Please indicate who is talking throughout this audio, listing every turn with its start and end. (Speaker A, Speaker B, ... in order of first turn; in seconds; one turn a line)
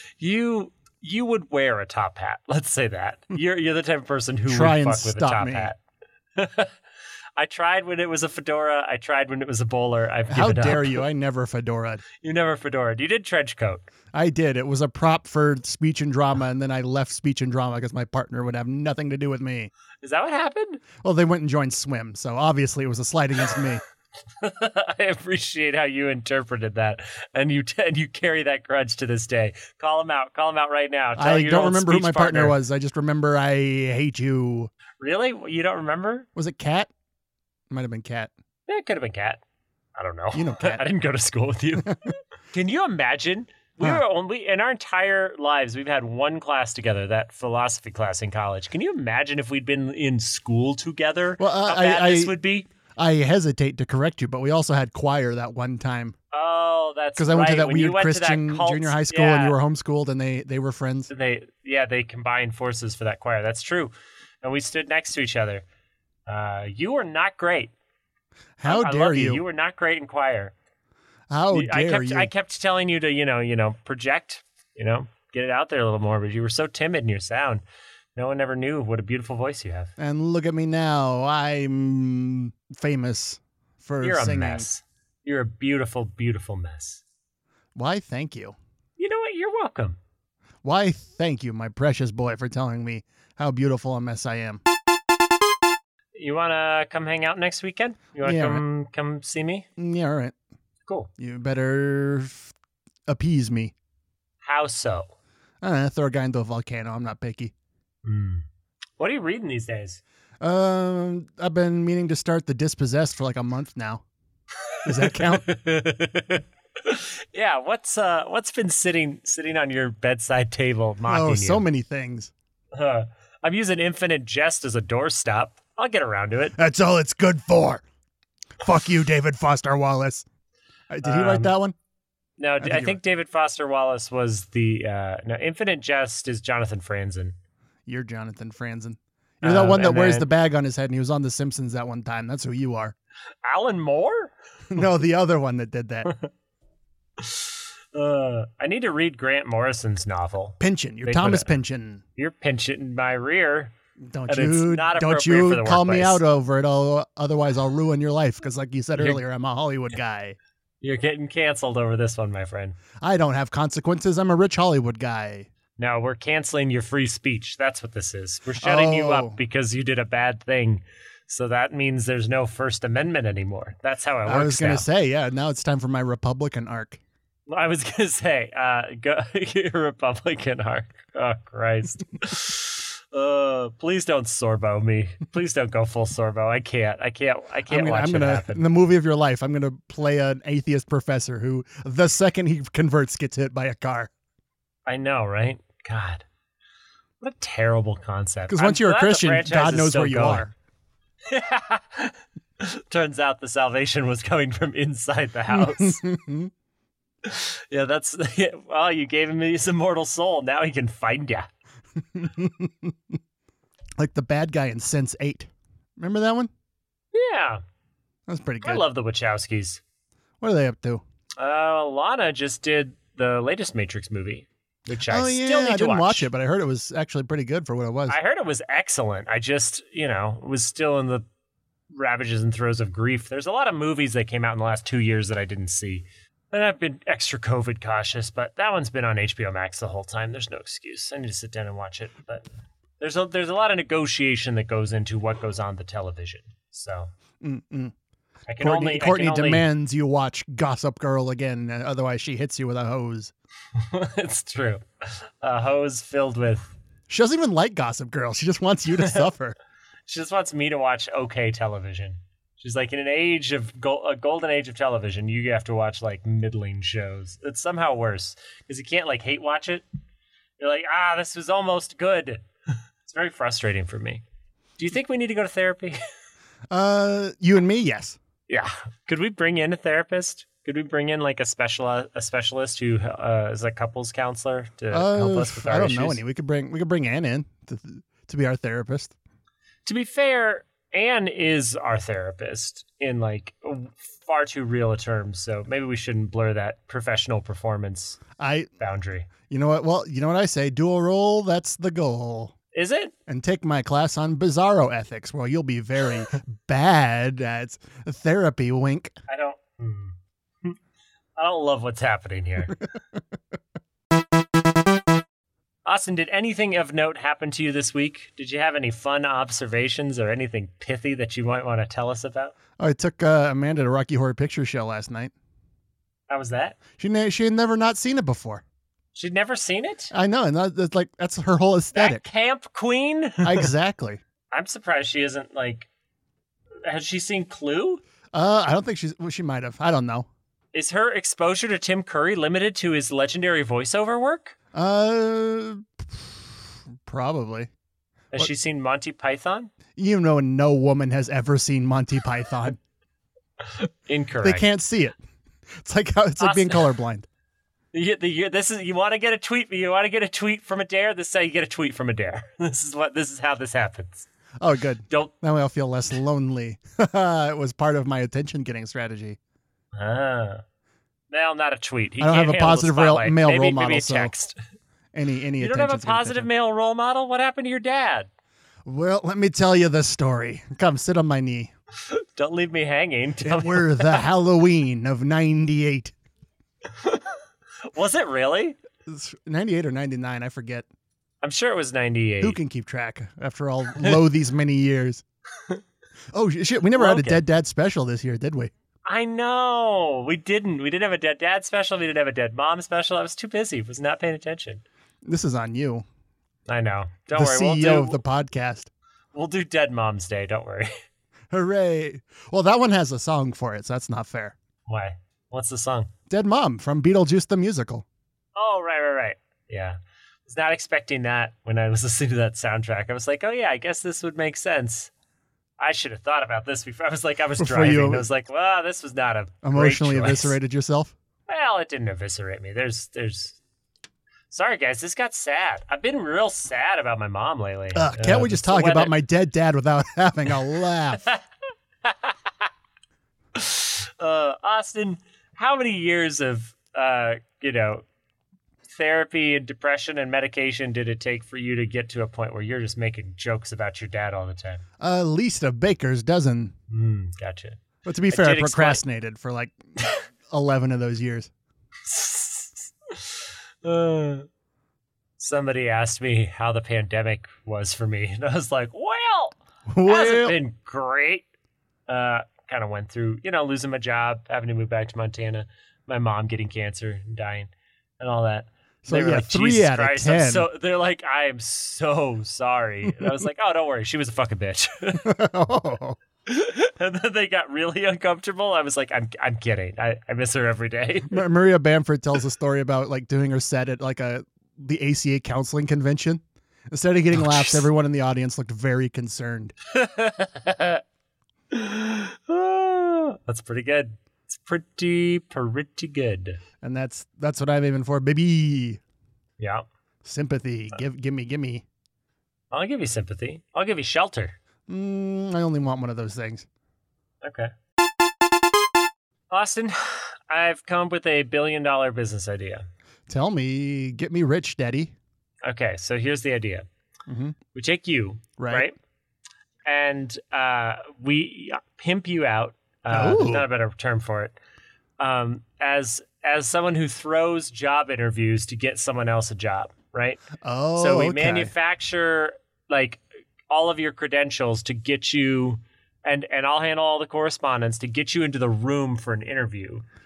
Speaker A: 0.2-5.8
Speaker B: 4.5-5.7
Speaker A: 6.4-6.7
Speaker A: 7.4-11.1
Speaker B: 10.3-12.0
Speaker A: 12.2-13.9
Speaker B: 14.1-19.7
Speaker A: 20.0-20.8
Speaker B: 21.0-23.8
Speaker A: 24.4-32.6
Speaker B: 31.2-34.7
Speaker A: 35.0-36.3
Speaker B: 36.4-36.9
Speaker B: 37.7-38.3
Speaker A: 38.7-39.4
Speaker A: 40.0-52.7
Speaker B: 40.3-40.8
Speaker B: 51.4-52.4
Speaker B: 53.0-56.2
Speaker A: 56.3-59.6
Speaker B: 57.2-61.1
Speaker A: 61.1-65.7
Speaker A: 66.3-67.7
Speaker B: 68.6-69.4
Speaker A: 68.7-70.5
Speaker B: 71.3-72.3
Speaker A: 71.5-77.6
Speaker A: 78.2-79.9
Speaker B: 80.0-84.7
Speaker A: 84.0-87.0
Speaker B: 87.8-88.6
Speaker A: 89.0-90.0
Speaker B: 90.6-94.6
Speaker A: 96.1-99.7
Speaker B: 98.2-98.6
Speaker B: 99.8-100.3
Speaker B: 101.2-102.5
Speaker B: 103.1-103.7
Speaker A: 104.4-105.1
Speaker B: 105.6-107.5
Speaker A: 108.0-108.5
Speaker A: 109.0-110.0
Speaker B: 110.4-114.0
Speaker A: 114.7-121.7
Speaker B: 114.8-115.5
Speaker B: 121.1-122.3
Speaker A: 122.7-126.6
Speaker B: 126.6-127.8
Speaker B: 128.6-130.3
Speaker B: 130.9-131.8
Speaker A: 131.0-131.5
Speaker A: 132.4-137.3
Speaker B: 132.6-133.0
Speaker B: 137.9-142.9
Speaker A: 139.4-140.3
Speaker A: 143.4-144.3
Speaker B: 144.7-146.1
Speaker A: 147.2-151.5
Speaker B: 150.6-152.0
Speaker A: 152.2-153.7
Speaker B: 154.1-160.4
Speaker A: 154.3-156.2
Speaker A: 159.0-159.2
Speaker A: 160.8-162.8
Speaker B: 163.0-165.5
Speaker A: 165.8-174.9
Speaker B: 168.6-169.4
Speaker B: 174.3-177.0
Speaker A: 177.5-188.7
Speaker B: 187.7-194.1
Speaker A: 194.9-196.3
Speaker A: 197.2-200.5
Speaker B: 198.5-200.5
Speaker A: 201.3-206.0
Speaker B: 205.5-206.5
Speaker A: 207.2-211.5
Speaker B: 212.2-213.0
Speaker B: 214.0-216.5
Speaker A: 217.1-217.6
Speaker B: 218.3-218.8
Speaker A: 218.6-219.8
Speaker B: 220.4-221.0
Speaker A: 221.4-226.3
Speaker B: 225.1-228.2
Speaker A: 228.1-231.3
Speaker A: 231.9-242.4
Speaker A: 243.0-247.1
Speaker B: 247.4-247.9
Speaker A: 248.5-249.7
Speaker B: 248.6-253.3
Speaker A: 253.8-256.7
Speaker B: 257.1-259.6
Speaker A: 260.1-269.9
Speaker A: 270.6-272.4
Speaker A: 273.0-274.2
Speaker A: 274.8-276.0
Speaker B: 276.7-278.2
Speaker A: 278.5-286.2
Speaker B: 284.9-289.1
Speaker A: 289.9-298.2
Speaker B: 298.4-298.7
Speaker A: 298.8-299.3
Speaker B: 299.5-302.5
Speaker A: 302.7-303.1
Speaker B: 303.3-309.1
Speaker A: 309.3-310.8
Speaker A: 311.4-312.8
Speaker A: 315.9-322.5
Speaker B: 322.8-325.3
Speaker A: 326.3-326.8
Speaker B: 327.0-328.6
Speaker A: 329.1-330.1
Speaker B: 330.1-332.2
Speaker A: 331.9-333.7
Speaker B: 333.4-334.2
Speaker A: 334.5-335.9
Speaker A: 336.9-338.0
Speaker B: 338.3-340.3
Speaker A: 340.7-344.6
Speaker B: 344.7-347.7
Speaker A: 348.3-349.7
Speaker B: 350.0-352.8
Speaker A: 353.6-354.6
Speaker B: 354.4-355.2
Speaker B: 355.8-357.3
Speaker A: 356.4-356.9
Speaker A: 357.9-364.3
Speaker B: 364.6-369.4
Speaker A: 365.1-365.4
Speaker A: 369.9-370.6
Speaker A: 371.3-374.6
Speaker B: 372.2-374.3
Speaker B: 375.1-376.5
Speaker A: 375.6-378.3
Speaker B: 378.9-381.7
Speaker A: 382.1-384.3
Speaker B: 383.4-386.1
Speaker A: 386.9-387.4
Speaker A: 387.9-388.8
Speaker B: 389.1-390.9
Speaker A: 391.4-392.6
Speaker B: 392.4-395.2
Speaker B: 396.3-398.7
Speaker A: 396.9-397.4
Speaker A: 399.1-404.8
Speaker B: 405.2-406.1
Speaker A: 406.7-408.2
Speaker B: 407.4-408.9
Speaker A: 409.3-410.9
Speaker B: 411.5-414.6
Speaker A: 414.9-416.1
Speaker B: 416.3-418.1
Speaker A: 418.6-425.1
Speaker A: 425.8-430.6
Speaker B: 427.6-428.3
Speaker B: 429.6-431.1
Speaker A: 431.5-433.6
Speaker A: 434.5-439.1
Speaker B: 437.9-441.2
Speaker A: 442.0-442.4
Speaker A: 443.6-448.1
Speaker A: 448.9-454.8
Speaker B: 455.0-456.7
Speaker A: 456.9-459.0
Speaker B: 458.1-459.8
Speaker B: 460.5-461.5
Speaker A: 462.1-464.5
Speaker A: 465.4-471.5
Speaker B: 469.9-470.6
Speaker A: 472.1-485.3
Speaker B: 479.0-480.7
Speaker B: 485.2-486.2
Speaker A: 486.5-491.4
Speaker B: 491.3-499.7
Speaker A: 497.3-497.9
Speaker A: 499.9-501.0
Speaker A: 501.7-506.6
Speaker B: 506.8-509.0
Speaker A: 509.6-509.9
Speaker B: 510.2-511.9
Speaker A: 512.7-514.6
Speaker B: 514.9-516.7
Speaker A: 517.4-517.7
Speaker A: 519.5-522.9
Speaker B: 523.3-525.1
Speaker A: 525.6-526.9
Speaker B: 527.3-527.6
Speaker A: 527.7-529.0
Speaker B: 528.6-528.9
Speaker A: 529.9-534.5
Speaker B: 533.1-533.7
Speaker A: 535.2-540.4
Speaker B: 540.6-541.7
Speaker A: 541.0-550.0